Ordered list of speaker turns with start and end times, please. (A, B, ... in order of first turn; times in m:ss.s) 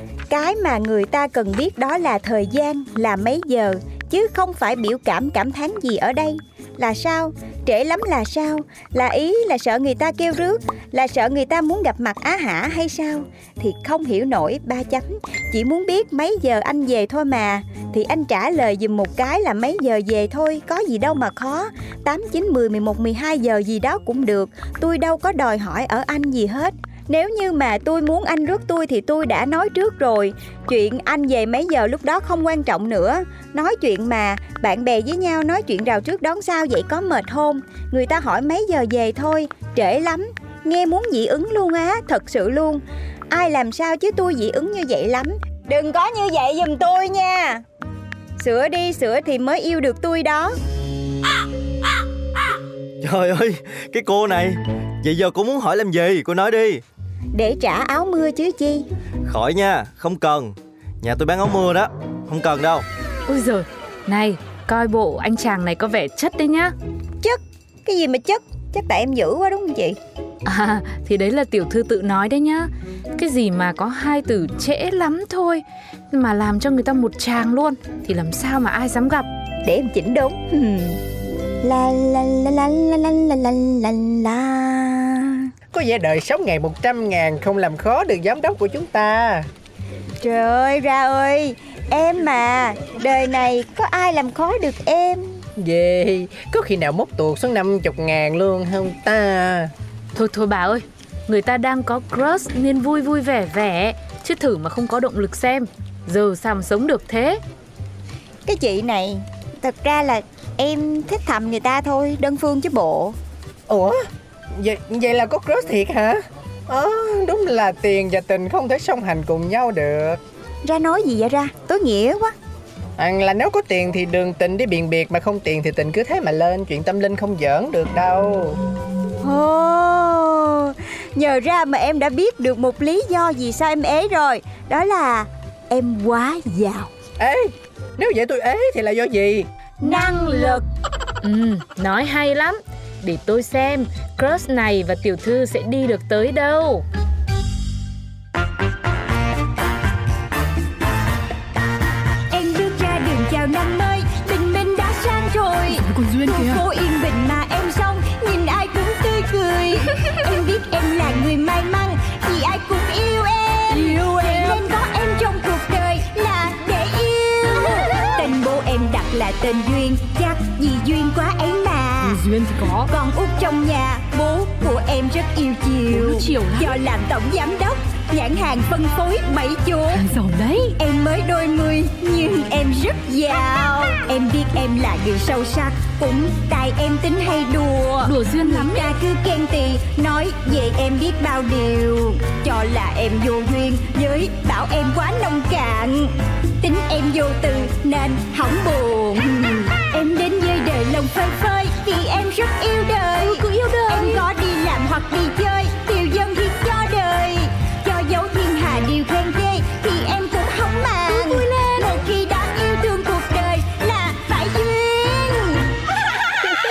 0:00.3-0:47.6 A
0:48.4-0:50.5 A
0:53.0-0:56.8 B
0:57.3-0:58.8 A
0:59.3-1:02.8 B
1:03.3-1:06.7 C
1:07.2-1:10.0 A
1:10.4-1:19.3 C
1:19.6-1:21.0 A
1:21.6-1:25.5 A
1:25.7-1:29.5 D
1:30.2-1:35.4 A
1:35.6-1:39.7 D
1:40.1-1:47.4 C
1:48.4-1:53.2 A
1:53.7-1:53.9 D
1:54.6-2:00.2 D
2:00.6-2:02.3 A
2:03.0-2:08.6 D
2:09.2-2:16.9 A
2:17.2-2:19.5 D
2:19.8-2:20.6 A
2:19.8-2:20.6 C
2:21.2-2:26.8 C
2:32.3-2:52.2 A
2:35.9-2:36.6 E
2:43.7-2:44.5 C
2:52.1-2:52.7 E
2:52.4-2:52.8 C
2:52.9-3:00.0 A
2:55.9-2:56.7 E
3:00.0-3:00.7 E
3:00.7-3:35.7 A
3:08.2-3:08.7 E
3:23.3-3:24.2 C